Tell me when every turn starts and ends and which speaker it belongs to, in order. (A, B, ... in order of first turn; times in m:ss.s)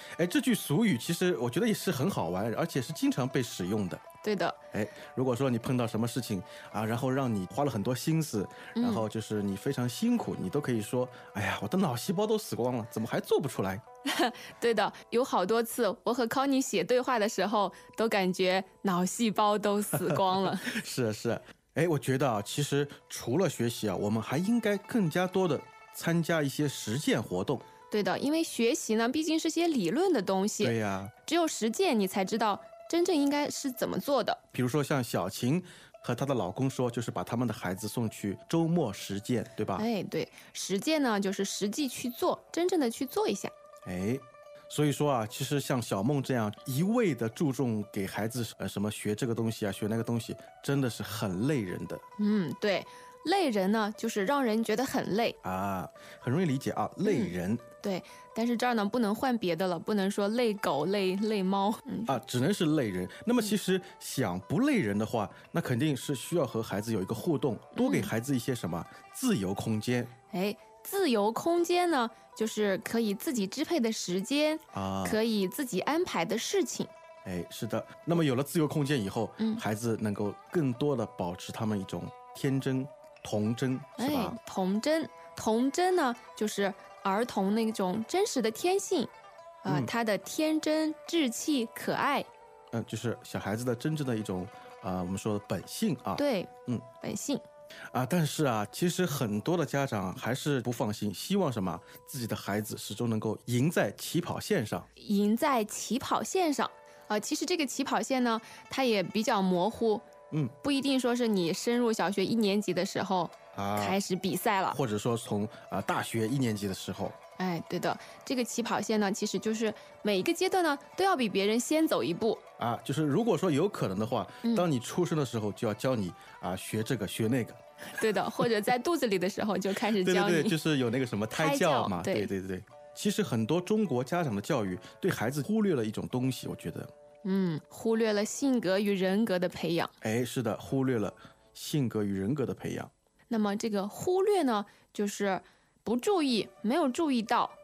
0:00.2-0:04.0 A
0:04.2-0:04.6 B
0:04.7-0:13.8 A
0:08.8-0:09.1 B
0:14.1-0:20.7 B
0:20.7-0:27.6 A
0:27.9-0:34.4 B
0:30.6-0:31.1 A
0:34.5-0:39.9 A
0:39.8-0:43.5 B
0:43.8-0:52.0 A
0:52.2-0:55.4 B
0:55.4-0:57.6 A
0:57.0-1:02.2 B
1:02.1-1:10.1 A
1:07.7-1:08.1 B
1:10.3-1:16.9 B
1:14.7-1:15.2 A
1:17.2-1:24.4 A
1:24.0-1:29.1 B
1:29.6-1:32.3 B
1:29.7-1:29.9 A
1:32.7-1:36.9 A
1:36.2-1:37.4 B
1:37.9-1:44.9 A
1:45.0-1:50.1 B
1:50.6-1:54.8 B
1:53.5-1:54.0 A
1:54.7-1:57.2 A
1:57.4-2:02.4 B
2:02.6-2:07.6 A
2:07.9-2:10.6 B
2:10.0-2:16.9 A
2:11.3-2:12.3 B
2:17.2-2:19.9 B
2:20.0-2:22.9 A
2:23.3-2:27.6 B